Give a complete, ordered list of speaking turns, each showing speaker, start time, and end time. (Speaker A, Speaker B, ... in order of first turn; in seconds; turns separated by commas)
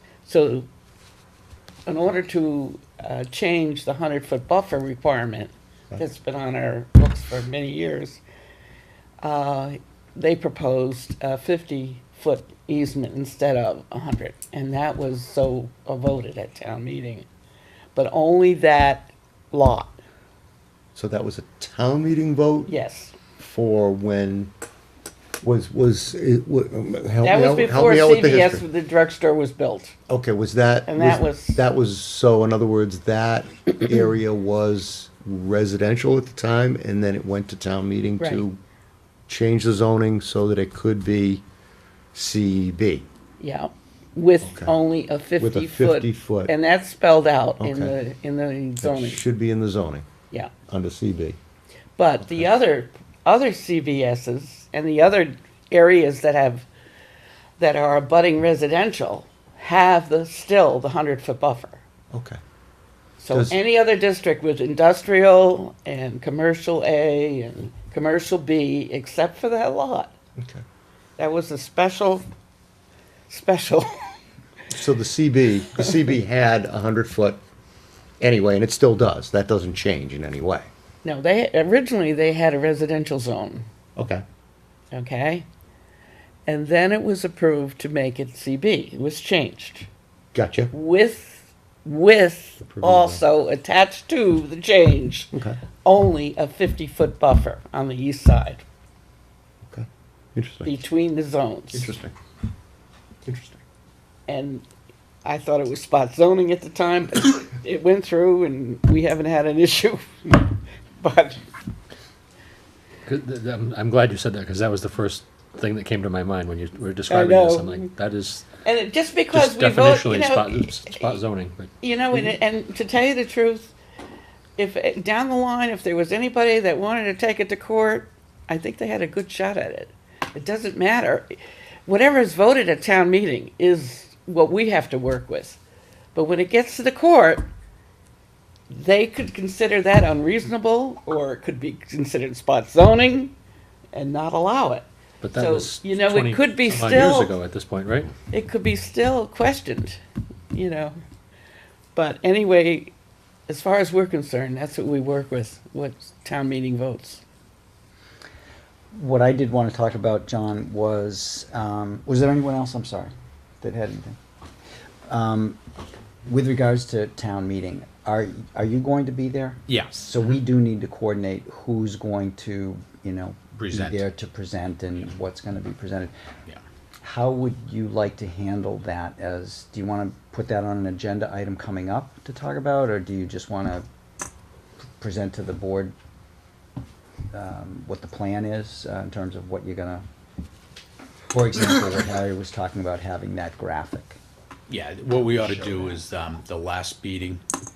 Speaker A: 0.2-0.7, Speaker A: 1.9-8.2, Speaker A: 9.2-17.2, Speaker A: 17.9-20.0, Speaker B: 20.9-22.7, Speaker A: 22.7-23.1, Speaker B: 23.4-24.5, Speaker B: 25.4-28.6, Speaker A: 27.2-29.9, Speaker B: 30.1-38.6, Speaker A: 30.9-31.6, Speaker A: 38.2-38.4, Speaker B: 39.3-41.4, Speaker B: 42.1-43.0, Speaker A: 43.4-49.2, Speaker B: 44.4-44.7, Speaker B: 45.4-46.5, Speaker B: 47.6-48.0, Speaker B: 48.8-50.0, Speaker B: 50.7-51.4, Speaker A: 52.0-56.7, Speaker A: 57.6-61.8, Speaker B: 62.1-62.4, Speaker A: 63.2-70.1, Speaker B: 63.3-63.6, Speaker A: 71.2-72.2, Speaker A: 73.3-74.0, Speaker B: 74.7-77.4, Speaker B: 78.2-80.7, Speaker A: 81.0-83.6, Speaker B: 84.0-84.2, Speaker A: 84.9-85.5, Speaker A: 86.5-89.9, Speaker B: 90.3-90.7, Speaker A: 90.7-95.3, Speaker B: 92.6-93.2, Speaker B: 95.3-95.6, Speaker A: 95.8-98.6, Speaker B: 99.7-100.7, Speaker A: 100.6-101.9, Speaker B: 101.7-102.1, Speaker B: 103.2-103.6, Speaker A: 104.3-104.7, Speaker A: 105.2-111.4, Speaker C: 113.0-118.5, Speaker A: 117.1-117.9, Speaker A: 118.6-121.2, Speaker C: 119.3-122.3, Speaker A: 121.8-123.7, Speaker A: 124.6-135.6, Speaker A: 136.1-137.4, Speaker A: 138.7-143.3, Speaker A: 143.9-147.3, Speaker C: 145.2-148.1, Speaker A: 148.3-150.0, Speaker A: 150.5-150.9, Speaker A: 151.9-152.9, Speaker A: 153.5-157.2, Speaker D: 158.9-164.2, Speaker D: 165.1-165.6, Speaker D: 166.3-176.1, Speaker E: 169.7-170.3, Speaker E: 173.6-174.1, Speaker D: 177.0-183.8, Speaker D: 185.0-185.9, Speaker D: 187.3-190.0, Speaker D: 191.3-194.2, Speaker E: 194.7-197.4, Speaker D: 195.3-196.0